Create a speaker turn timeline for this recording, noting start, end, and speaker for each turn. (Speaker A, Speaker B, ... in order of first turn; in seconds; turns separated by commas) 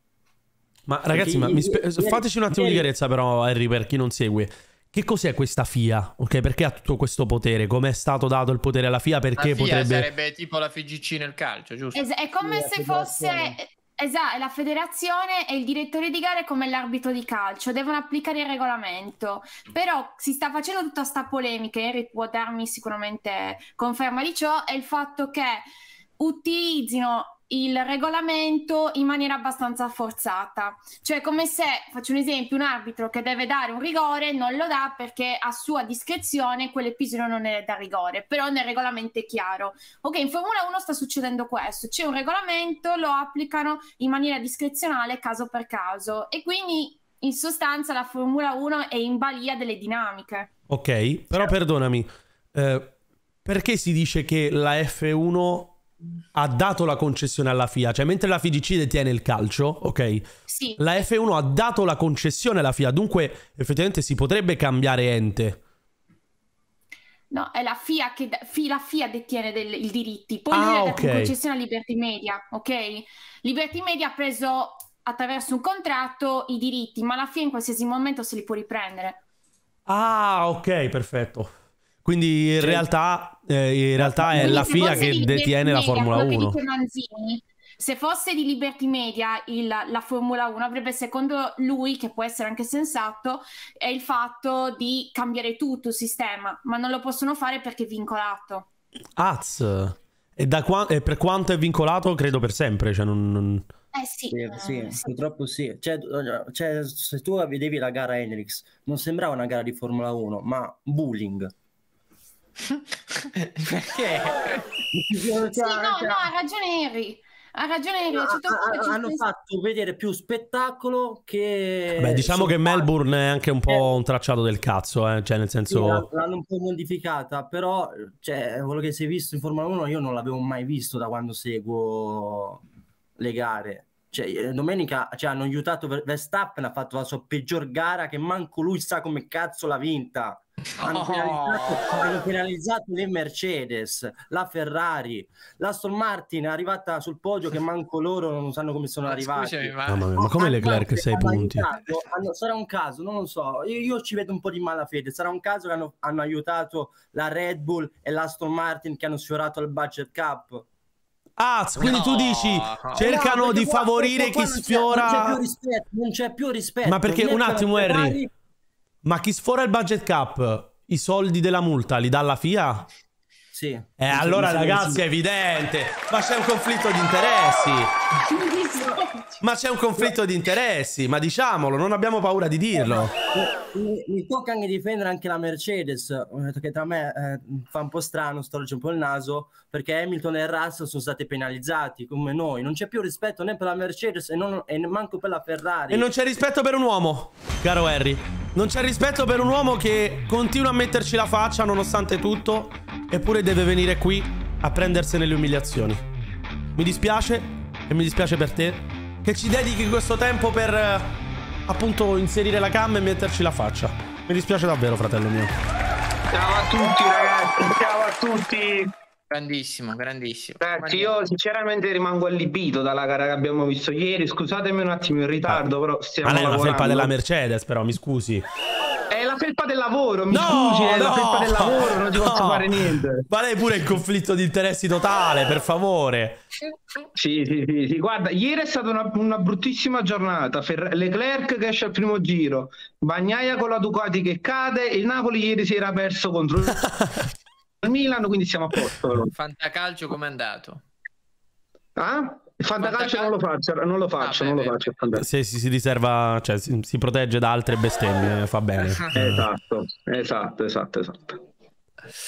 Speaker A: 0.9-10.1, Speaker B: 1.1-2.9, Speaker C: 9.4-12.0, Speaker D: 11.9-25.6, Speaker B: 12.4-13.6, Speaker D: 26.2-50.5, Speaker A: 50.7-52.9, Speaker A: 53.5-55.8, Speaker A: 56.4-60.2, Speaker D: 60.5-60.9, Speaker A: 60.8-65.6, Speaker D: 67.3-79.2, Speaker A: 70.5-71.3, Speaker A: 79.9-81.5, Speaker A: 82.0-86.6, Speaker B: 82.6-82.9, Speaker B: 84.0-85.2, Speaker D: 84.3-98.7, Speaker A: 99.2-103.7, Speaker D: 103.9-105.1, Speaker B: 104.3-111.5, Speaker C: 113.4-114.6, Speaker B: 114.9-116.3, Speaker D: 115.5-119.3, Speaker B: 118.1-122.9, Speaker A: 122.0-126.0, Speaker B: 125.7-132.6, Speaker B: 133.2-160.7, Speaker C: 140.8-142.0, Speaker C: 149.1-150.1, Speaker A: 149.9-151.7, Speaker A: 161.4-165.4, Speaker C: 161.8-163.2, Speaker B: 162.9-168.3, Speaker A: 166.8-168.2, Speaker A: 169.0-172.9, Speaker B: 173.5-175.0, Speaker A: 174.0-177.9, Speaker D: 178.3-179.4, Speaker A: 179.4-183.1, Speaker B: 182.8-196.1, Speaker A: 195.9-206.0, Speaker A: 206.8-211.1, Speaker A: 211.7-215.5, Speaker E: 216.3-218.9, Speaker C: 219.3-221.3, Speaker E: 220.6-227.1, Speaker A: 226.2-228.5, Speaker E: 229.1-233.3, Speaker A: 230.3-236.4, Speaker E: 237.2-246.8, Speaker A: 246.7-247.3, Speaker E: 247.8-249.3, Speaker C: 249.3-250.8, Speaker E: 252.0-255.2, Speaker C: 252.8-253.3, Speaker C: 254.2-254.9, Speaker A: 255.2-259.4, Speaker E: 259.1-261.4